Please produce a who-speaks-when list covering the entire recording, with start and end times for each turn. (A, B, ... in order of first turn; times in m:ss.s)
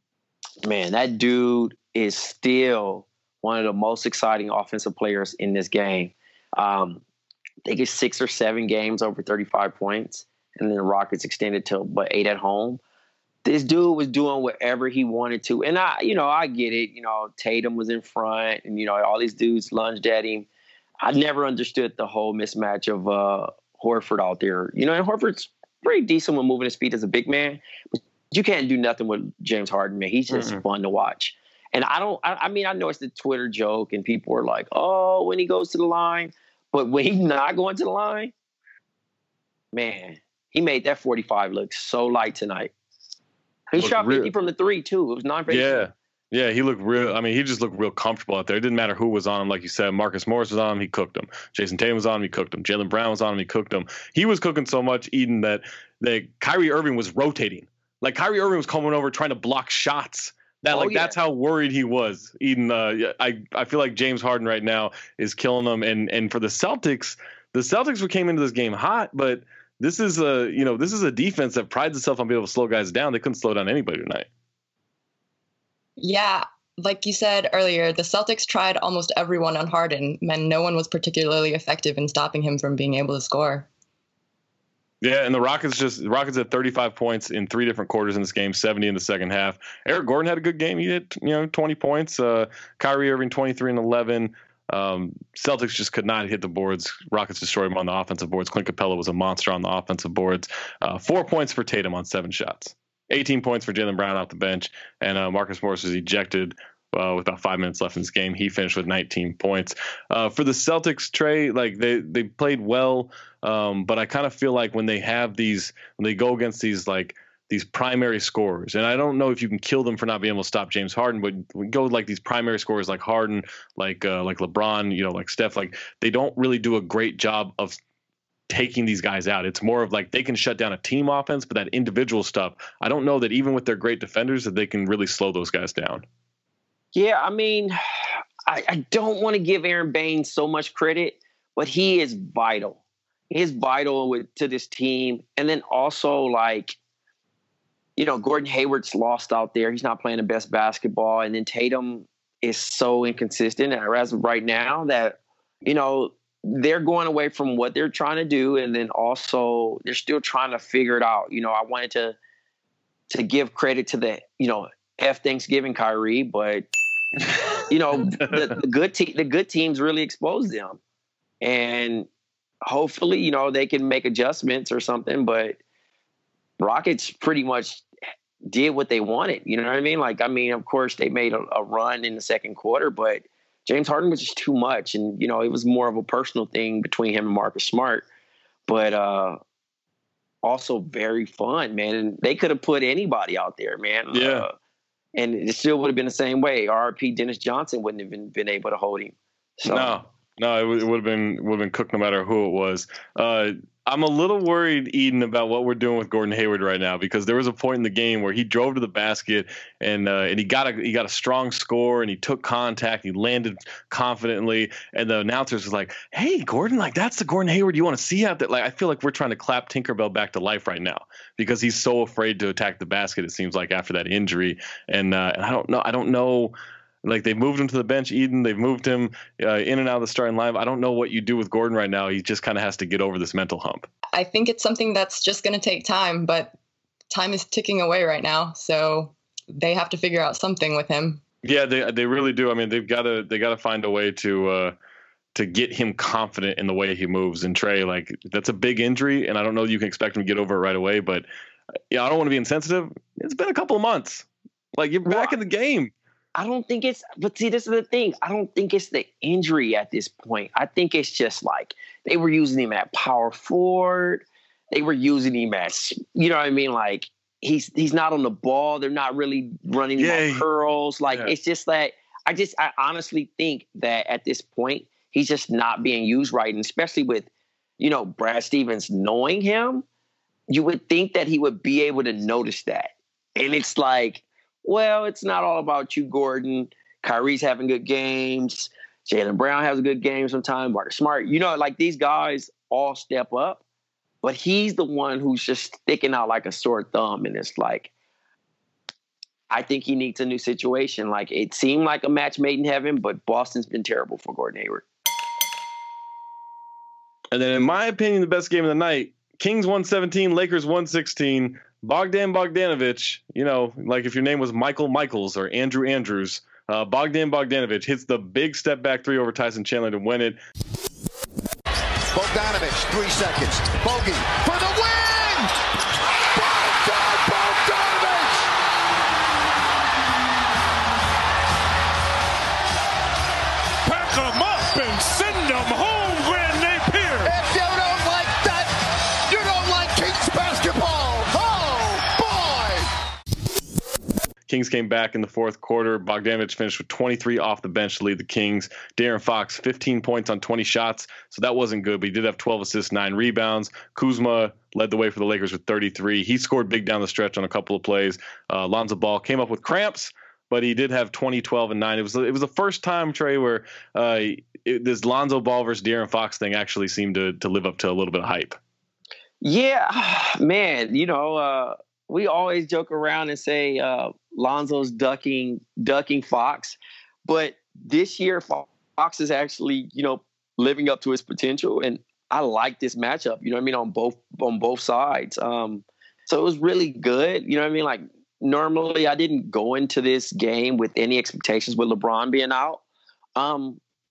0:00.6-0:07.0 A
0:07.6-0:12.8 A
0:13.4-0:20.5 A
0:21.0-0:38.3 A
0:30.3-0:30.6 B
0:39.7-0:42.7 A
0:43.7-0:45.8 A
0:43.8-0:44.3 B
0:45.5-1:14.3 B
1:00.7-1:01.2 A
1:16.0-1:23.7 C
1:25.0-2:07.8 B
2:08.5-2:16.1 B
2:16.9-2:22.8 A
2:23.3-2:26.8 A
2:28.0-2:42.2 A
2:43.1-2:46.7 A
2:47.3-2:48.6 B
2:47.7-2:50.8 A
2:51.4-2:52.1 A
2:52.6-2:55.6 A
2:56.6-2:57.8 A
2:58.4-3:08.1 A
3:08.7-3:09.4 A
3:10.4-3:14.5 A
3:14.1-3:14.5 B
3:15.2-3:20.0 A
3:19.6-3:53.9 B
3:54.1-3:56.5 C
3:57.1-4:01.2 C
4:01.4-4:04.8 B
4:05.4-4:11.3 B
4:11.9-4:15.9 B
4:15.1-4:15.3 A
4:16.4-4:37.3 A
4:30.0-4:30.5 B
4:37.8-4:39.8 A
4:40.5-4:53.6 A
4:54.2-4:57.9 A
4:59.5-5:04.8 A
5:07.3-5:20.4 B
5:22.1-5:25.5 D
5:26.2-5:28.5 D
5:33.8-5:37.3 E
5:37.2-5:38.7 D
5:39.3-5:42.9 D
5:44.5-6:08.6 B
6:09.4-6:32.8 A
6:33.4-6:33.8 A